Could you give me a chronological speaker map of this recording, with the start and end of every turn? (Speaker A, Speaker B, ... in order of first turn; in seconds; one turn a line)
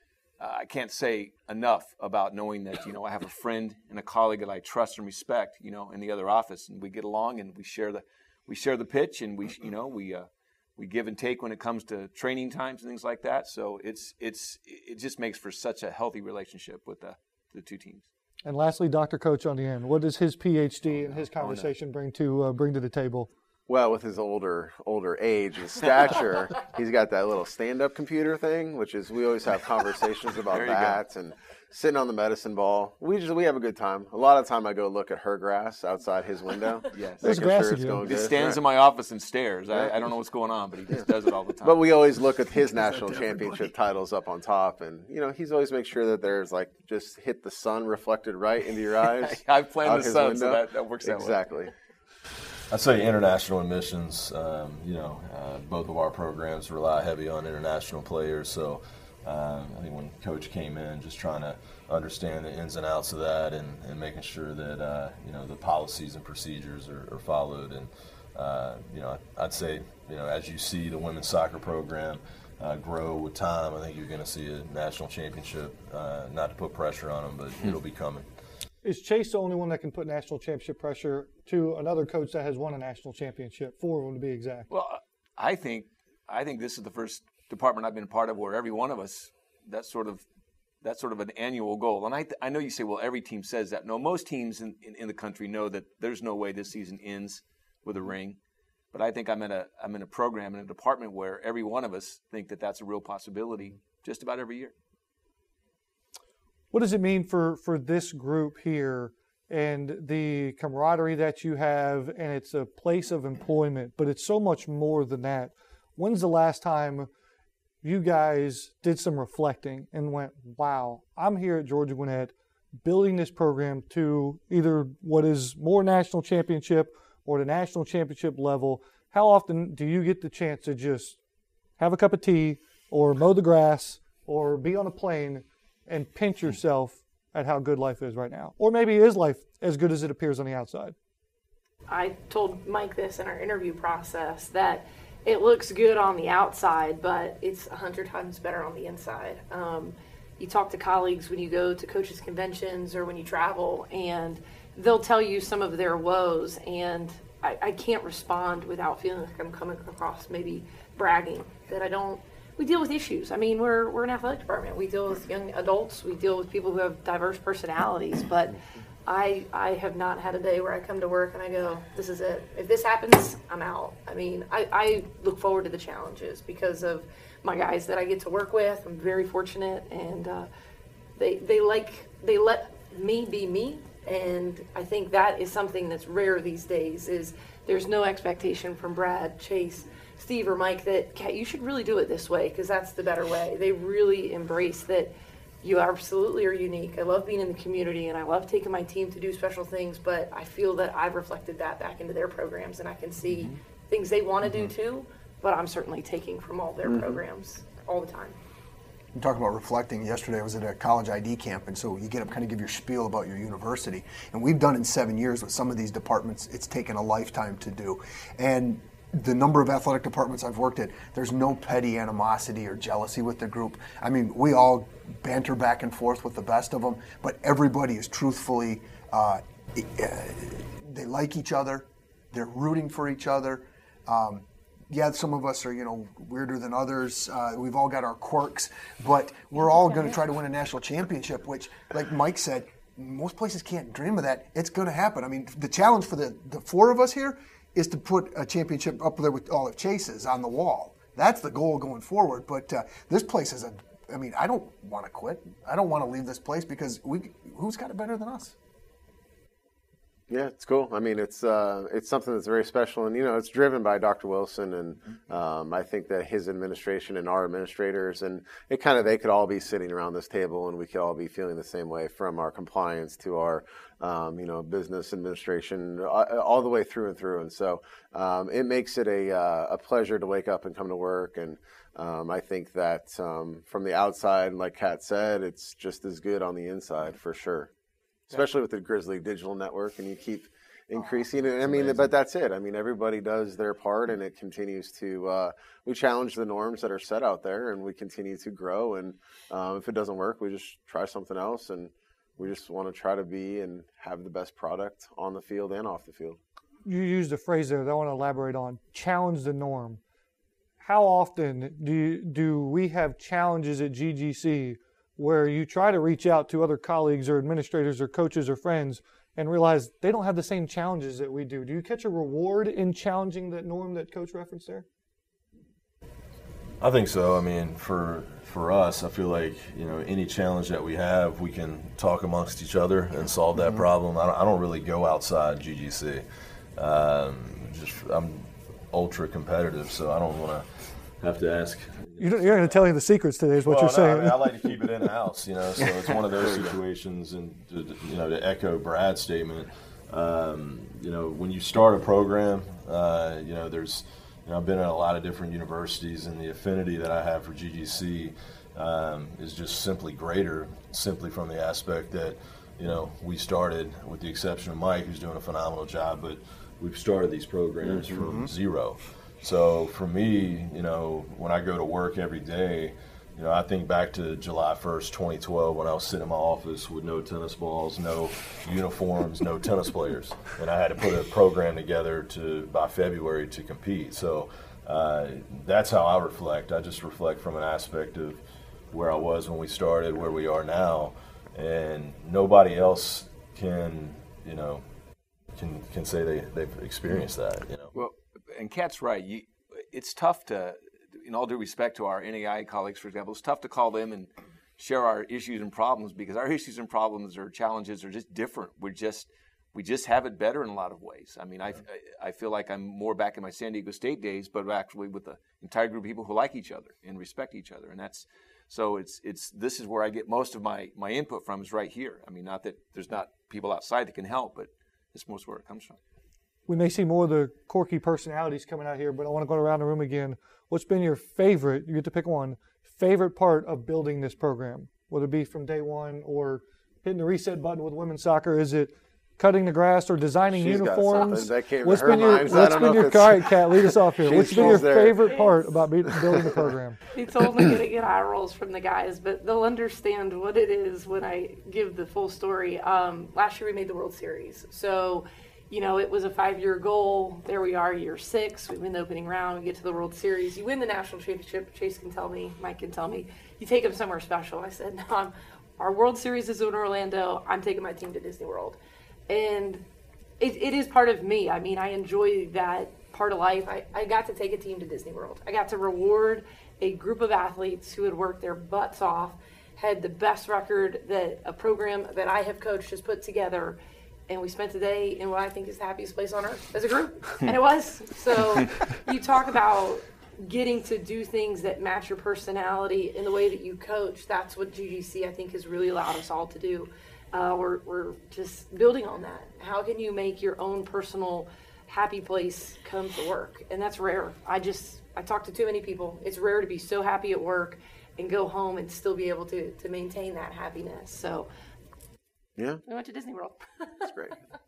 Speaker A: 0.4-18.1
Speaker B: 18.4-23.3
Speaker A: 20.9-21.7
Speaker C: 23.7-38.6
Speaker A: 30.5-31.0
Speaker A: 36.9-41.9
Speaker B: 37.2-38.0
Speaker C: 41.6-51.7
Speaker A: 43.0-43.3
Speaker A: 49.0-51.4
Speaker D: 52.7-78.3
Speaker B: 78.8-84.7
Speaker A: 84.7-90.2
Speaker A: 90.8-98.4
Speaker A: 98.9-104.8
Speaker B: 106.7-117.1
Speaker B: 117.8-131.2
Speaker B: 131.8-140.9
Speaker E: 141.9-180.5
Speaker E: 181.2-208.4
Speaker C: 206.9-207.2
Speaker F: 209.1-258.6
Speaker C: 260.3-287.7
Speaker C: 288.3-306.4
Speaker B: 306.9-310.0
Speaker B: 310.8-324.9
Speaker D: 326.8-336.2
Speaker D: 336.8-342.9
Speaker B: 342.2-344.8
Speaker D: 343.6-394.8
Speaker C: 367.9-368.5
Speaker D: 395.5-397.9
Speaker A: 397.9-426.0
Speaker B: 426.7-447.0
Speaker C: 440.5-445.5
Speaker E: 445.3-445.6
Speaker C: 446.1-446.6
Speaker E: 447.1-468.8
Speaker E: 469.3-469.9
Speaker E: 470.4-483.8
Speaker E: 484.3-511.5
Speaker C: 512.6-512.8
Speaker E: 512.9-514.2
Speaker C: 514.0-514.4